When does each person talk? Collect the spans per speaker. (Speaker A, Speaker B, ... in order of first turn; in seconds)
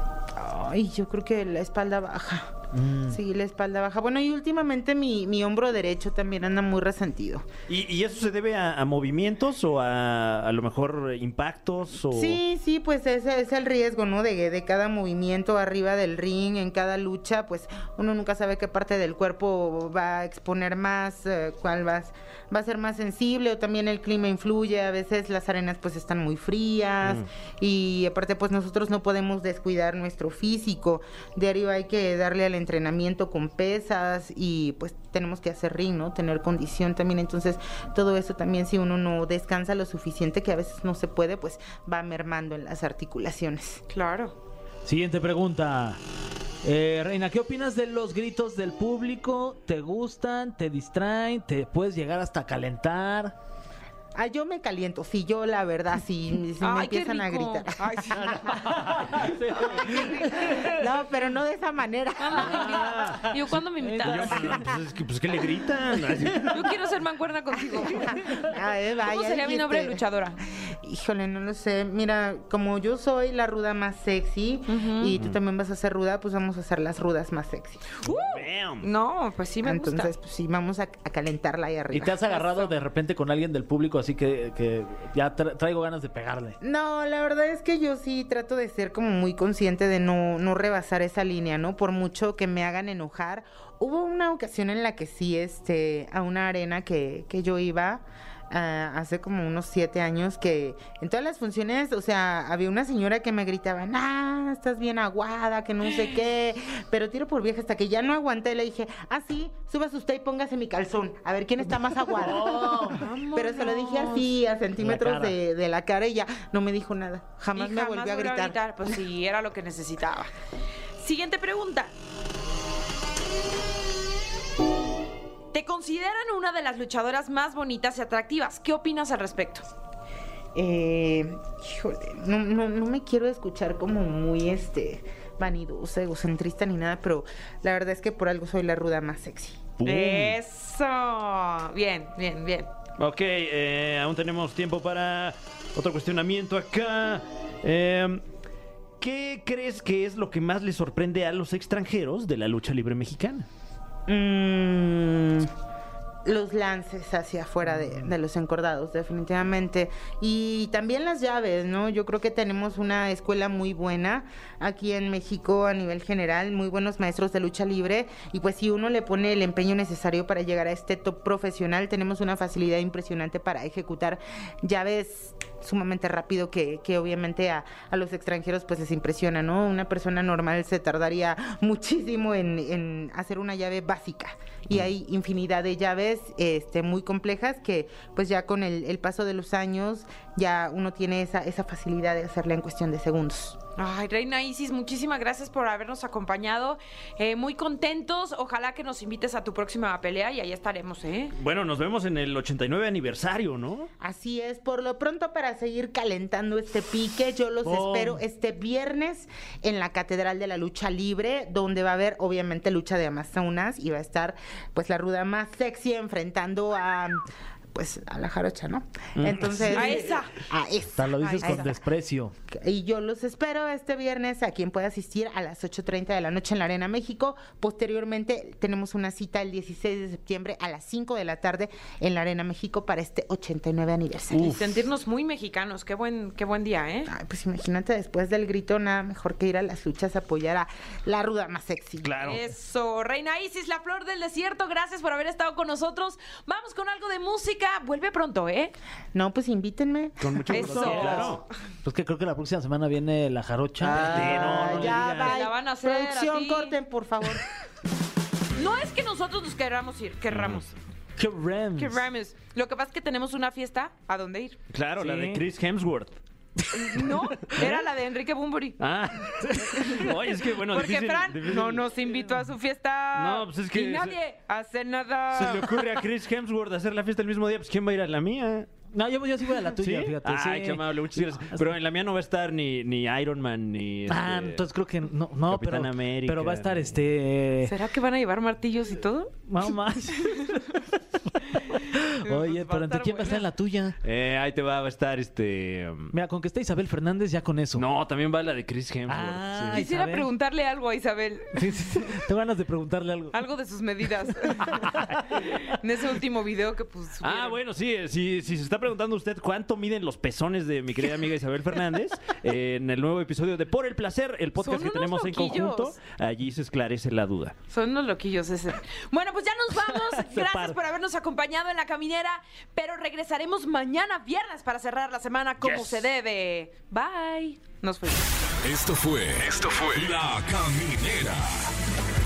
Speaker A: 0.4-7.5, 12.1-43.8, 54.1-58.7, 59.6-62.9, 67.7-70.0, 70.7-78.0, 79.6-82.6, 86.6-118.6, 130.5-139.7, 154.1-155.5, 156.2-193.6, 204.0-217.2, 217.7-221.8, 222.5-234.6, 237.1-242.2, 249.1-250.8, 253.8-257.4
Speaker B: 2.7-3.1, 44.8-46.0, 46.6-53.3, 59.1-59.5, 62.5-64.7, 81.9-86.6, 111.7-113.1, 114.8-115.4, 207.6-208.2, 220.9-222.3, 250.7-255.0, 261.2-262.0, 265.0-265.4, 278.9-281.6, 284.1-287.7, 289.5-291.2, 291.7-293.9, 296.1-297.9, 299.1-300.3, 301.5-303.4, 304.6-305.0
Speaker C: 7.7-12.4, 58.3-59.1, 62.7-63.3, 64.0-66.7, 78.2-78.9, 139.8-140.4, 143.0-148.2, 149.0-153.5, 201.3-203.9, 219.2-220.1, 234.3-234.6, 242.0-242.4, 250.2-251.4, 253.9-255.4, 260.3-260.6, 264.7-266.2, 267.5-267.8, 268.8-272.3, 273.1-274.2, 275.3-278.7, 279.8-284.6, 285.5-286.9, 294.0-296.1, 297.8-299.8, 307.2-317.6, 320.2-320.8, 325.6-326.0
Speaker D: 43.9-44.4, 56.6-58.7, 59.6-60.6, 62.2-64.7, 66.5-68.3, 69.0-70.4, 74.7-75.1, 78.0-80.1, 82.3-82.7, 112.7-114.3, 117.5-120.3, 121.0-121.9, 125.5-129.6, 139.8-142.7, 193.8-201.3, 219.7-220.3, 221.2-221.7, 234.3-237.1, 242.2-248.7, 250.5-251.4, 255.0-256.8, 258.6-260.7, 261.8-264.6, 266.7-268.8, 269.8-275.9, 287.6-289.4, 291.5-293.4, 299.7-302.1, 303.3-307.6, 314.6-316.0, 317.7-328.3
Speaker E: 328.6-331.6